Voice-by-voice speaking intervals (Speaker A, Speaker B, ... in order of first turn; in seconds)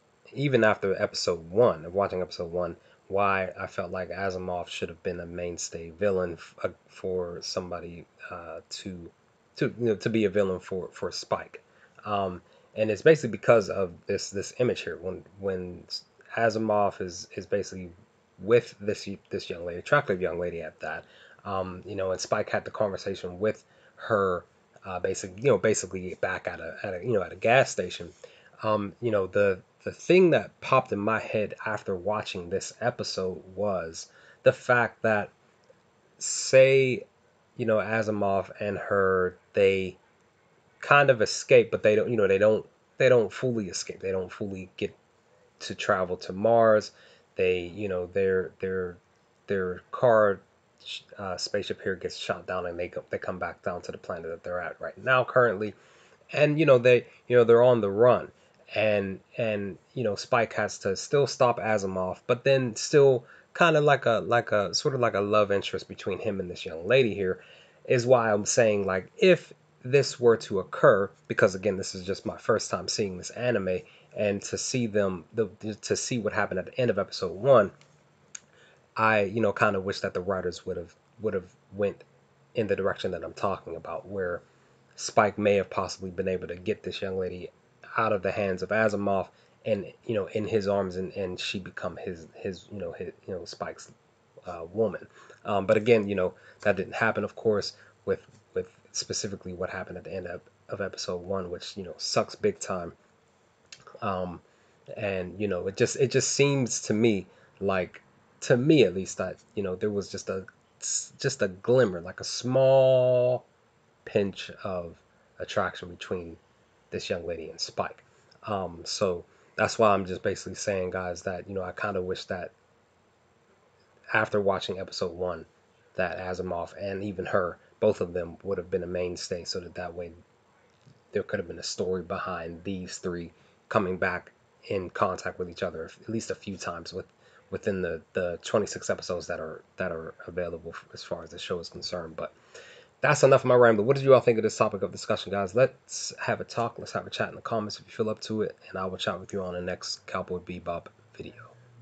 Speaker A: 0.3-35.3, 36.2-37.1, 37.6-40.0, 40.8-45.0, 45.6-55.8, 56.3-77.7, 79.0-84.4, 85.0-93.9, 94.5-103.0, 104.0-104.4, 105.0-113.5, 114.0-116.4, 116.9-122.5, 124.1-130.1, 131.1-142.3, 143.0-151.5